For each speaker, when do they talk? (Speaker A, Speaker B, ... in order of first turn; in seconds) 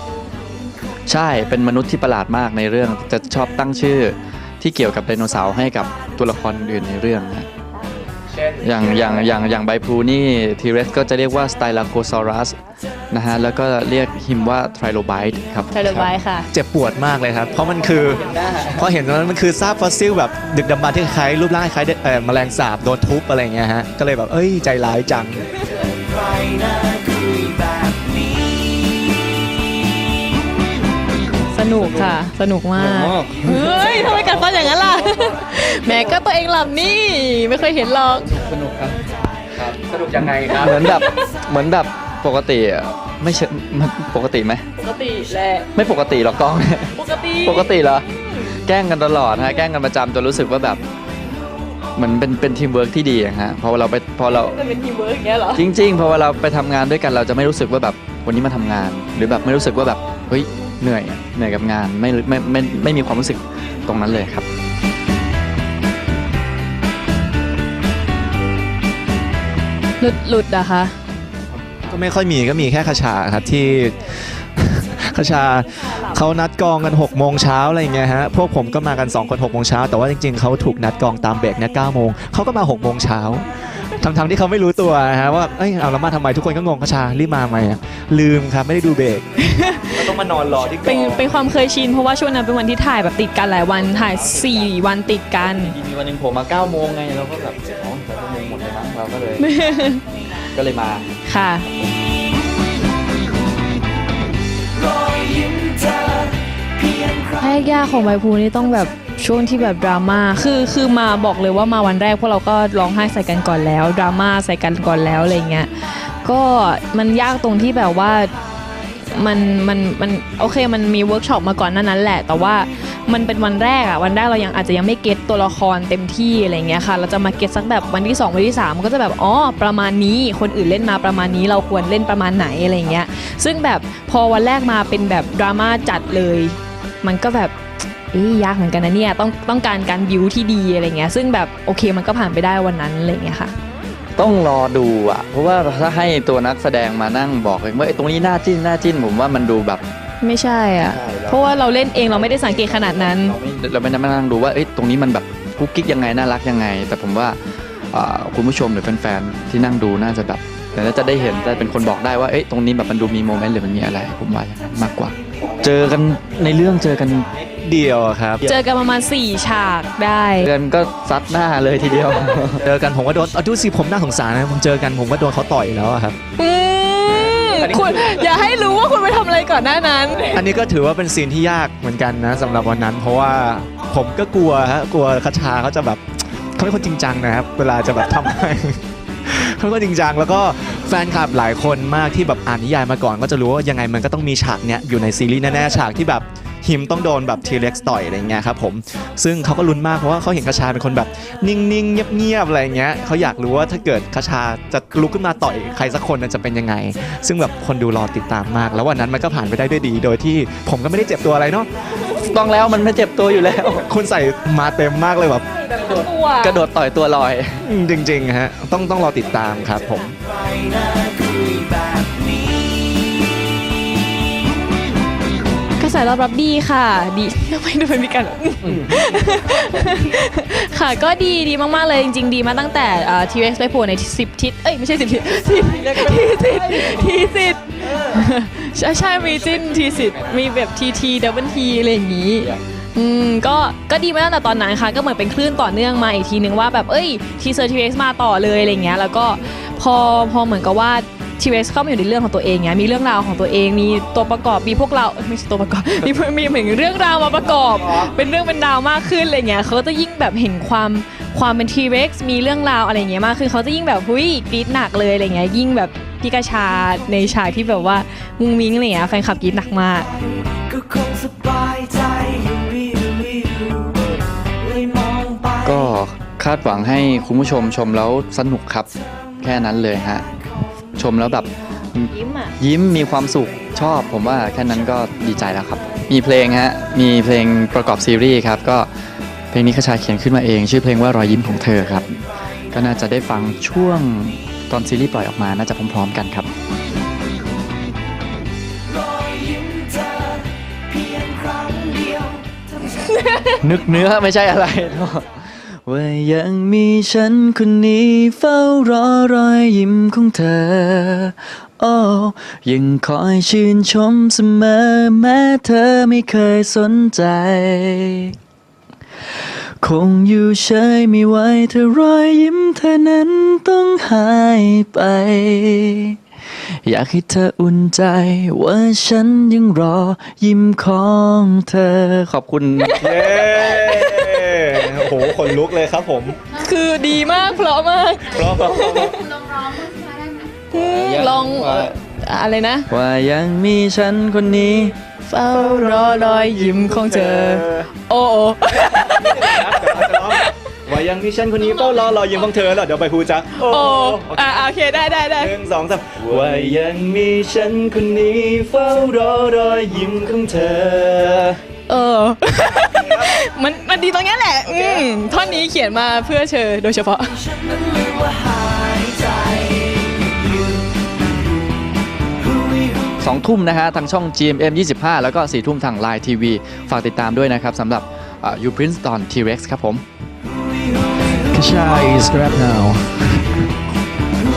Speaker A: 1.1-7.5, 8.4-12.6, 13.1-15.7, 17.9-18.8, 31.7-32.2, 32.8-35.1, 38.2-39.0, 39.5-44.7, 45.7-50.8, 52.0-54.6, 55.6-64.5, 93.7-94.7, 95.4-99.5, 100.5-101.1, 144.2-149.9, 150.8-157.4, 157.9-167.3, 170.4-172.7, 212.1-213.9, 215.8-217.7, 235.5-237.0, 239.3-240.5, 275.6-278.9, 279.4-280.3, 281.0-288.9, 289.5-296.5, 303.5-318.4, 319.8-326.2, 326.8-333.2, 340.7-341.9, 342.9-345.0, 356.2-361.6, 373.2-380.0
Speaker B: 15.7-16.5, 31.5-38.3, 40.6-41.3, 44.8-45.7, 47.0-48.5, 54.3-55.7, 70.0-71.0, 89.4-90.2, 90.8-95.8, 99.4-100.0, 101.2-101.7, 107.4-118.3, 119.1-137.6, 138.1-143.6, 150.2-153.4, 168.4-170.5, 176.4-180.4, 215.5-216.6, 225.8-270.1, 282.1-282.6, 303.2-303.5, 333.8-334.4, 336.5-342.9, 345.2-350.5, 353.5-355.6, 361.9-367.4
Speaker C: 15.8-25.4, 40.2-40.7, 71.9-89.2, 89.9-91.5, 167.5-168.4, 172.6-176.2, 177.1-178.2, 180.3-211.7, 213.8-215.5, 217.6-220.2, 333.0-336.4, 338.3-339.3, 345.5-347.9, 348.8-354.7, 355.4-356.9, 359.2-360.5, 362.8-363.4, 364.6-365.2, 381.3-383.6
Speaker D: 105.4-105.8, 270.8-273.9, 274.7-275.3, 301.7-302.3, 368.6-369.3